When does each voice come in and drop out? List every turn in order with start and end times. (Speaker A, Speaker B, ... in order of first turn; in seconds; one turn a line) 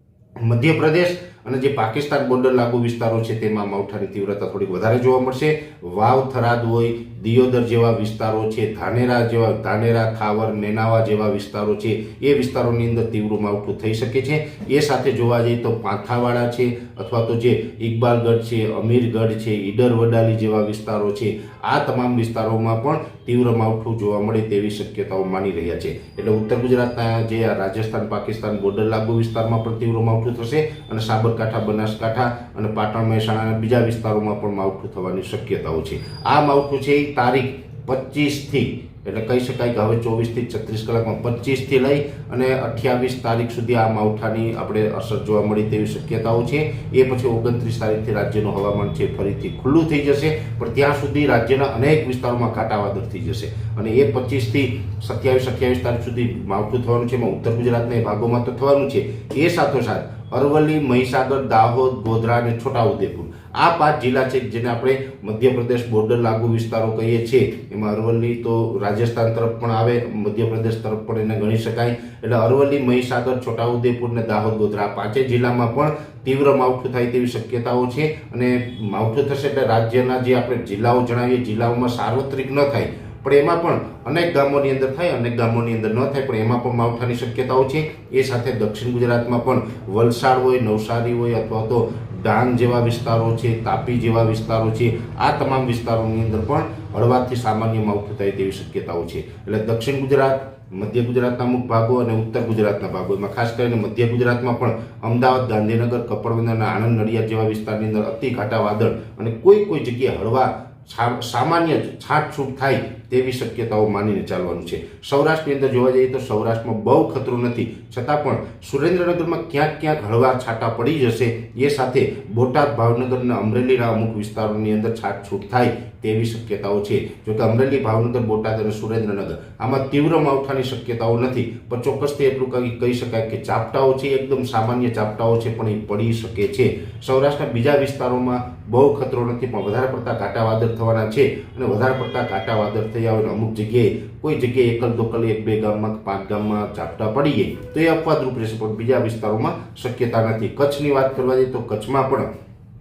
Speaker A: 0.4-152.3